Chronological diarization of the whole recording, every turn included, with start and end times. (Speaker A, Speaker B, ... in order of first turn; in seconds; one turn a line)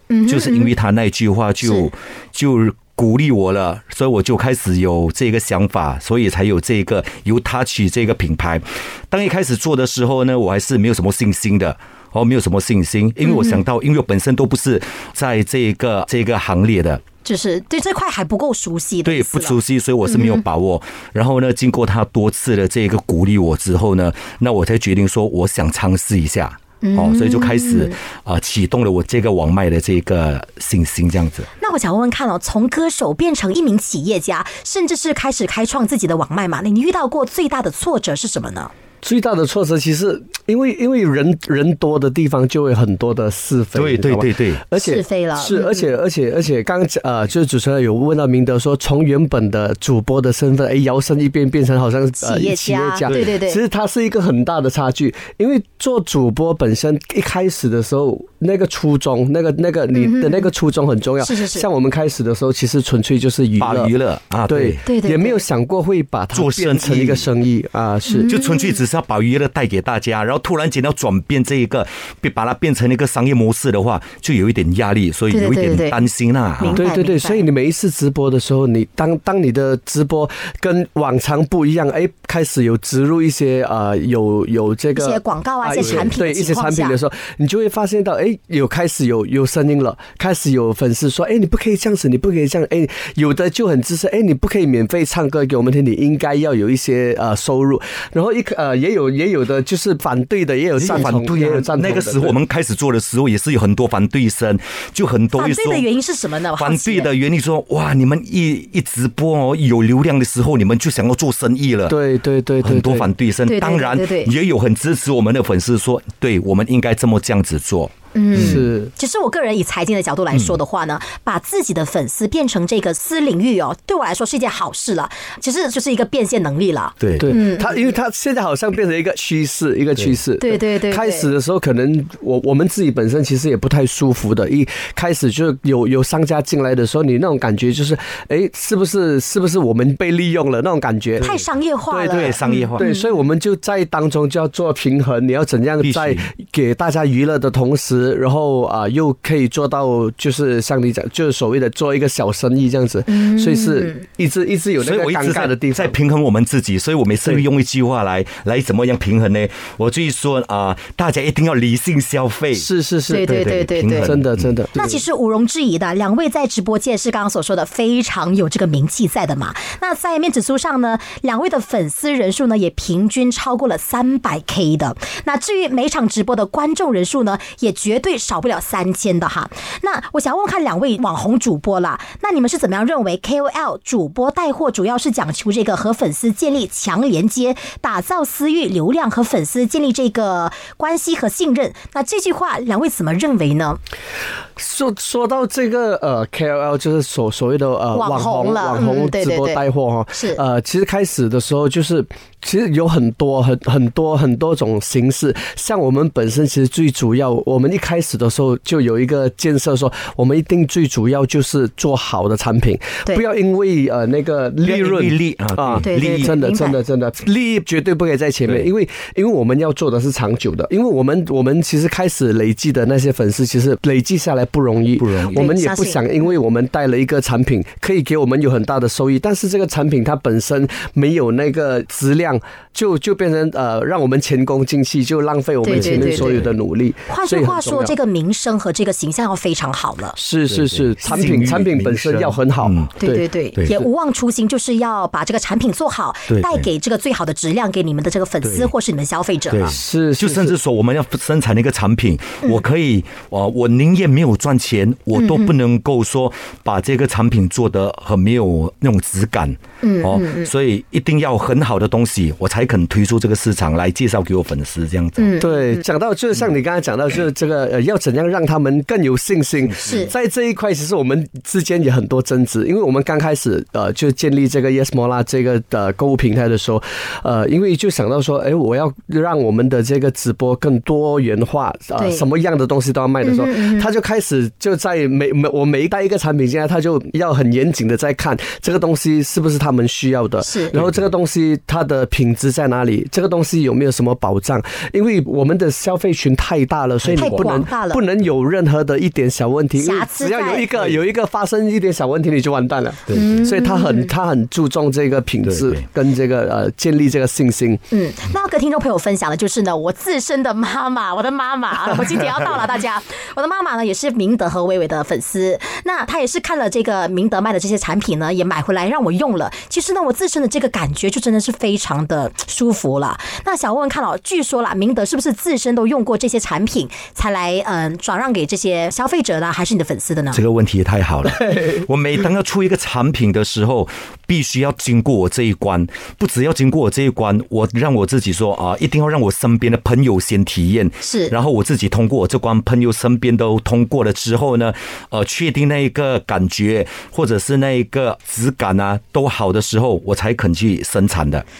Speaker A: 0.1-0.7
Speaker B: 0.3-17.0
Speaker A: 1.6-1.9
Speaker A: 13.2-13.6
Speaker A: 17.2-20.4
Speaker B: 19.0-31.5
Speaker A: 26.8-27.9
Speaker A: 31.6-38.7
Speaker C: 39.0-63.9
Speaker B: 43.7-44.6
Speaker A: 44.8-45.8
Speaker A: 52.2-53.6
Speaker B: 53.0-53.4
Speaker A: 60.0-60.5
Speaker A: 61.2-61.7
Speaker B: 63.6-64.8
Speaker C: 64.5-68.3
Speaker A: 64.8-65.4
Speaker B: 66.3-67.3
Speaker A: 68.1-68.8
Speaker B: 68.3-76.8
Speaker A: 75.3-76.0
Speaker A: 76.6-77.4
Speaker C: 76.7-102.3
Speaker A: 85.0-87.0
Speaker B: 85.8-86.1
Speaker B: 100.8-105.9
Speaker A: 105.3-107.1
Speaker B: 106.6-112.0
Speaker C: 111.9-113.1
Speaker B: 112.6-118.7
Speaker A: 113.4-114.3
Speaker A: 118.1-127.8
Speaker C: 118.3-118.9
Speaker B: 127.0-127.3
Speaker C: 127.2-141.3
Speaker A: 130.4-131.3
Speaker B: 141.2-141.5
Speaker A: 141.2-143.1
Speaker C: 141.9-155.9
Speaker B: 142.1-142.8
Speaker B: 145.8-146.3
Speaker A: 153.1-154.0
Speaker B: 154.8-162.7
Speaker C: 162.6-163.3
Speaker A: 163.1-164.1
Speaker B: 163.2-164.5
Speaker C: 164.0-165.0
Speaker A: 164.7-193.8
Speaker C: 194.6-237.9
Speaker A: 197.9-199.6
Speaker A: 200.1-200.4
Speaker B: 214.6-216.3
Speaker A: 215.8-216.8
Speaker B: 225.0-225.5
Speaker A: 225.3-226.0
Speaker A: 235.6-236.4
Speaker B: 235.7-236.5
Speaker A: 237.1-240.2
Speaker C: 240.2-243.8
Speaker B: 240.5-242.9
Speaker A: 243.0-249.7
Speaker B: 246.3-246.7
Speaker B: 248.4-248.7
Speaker B: 249.5-265.3
Speaker C: 249.6-250.6
Speaker A: 255.1-255.5
Speaker A: 259.8-260.5
Speaker A: 265.2-265.8
Speaker C: 265.4-307.8
Speaker B: 269.7-270.1
Speaker A: 269.8-270.1
Speaker A: 282.0-282.2
Speaker A: 283.2-283.9
Speaker A: 290.4-290.8
Speaker B: 290.7-291.1
Speaker B: 297.0-297.6
Speaker A: 297.1-298.0
Speaker A: 299.8-300.7
Speaker B: 300.7-301.0
Speaker B: 303.1-303.4
Speaker A: 303.1-304.1
Speaker B: 305.4-305.8
Speaker A: 307.9-330.4
Speaker B: 330.3-351.4
Speaker C: 331.3-331.8
Speaker A: 341.0-341.3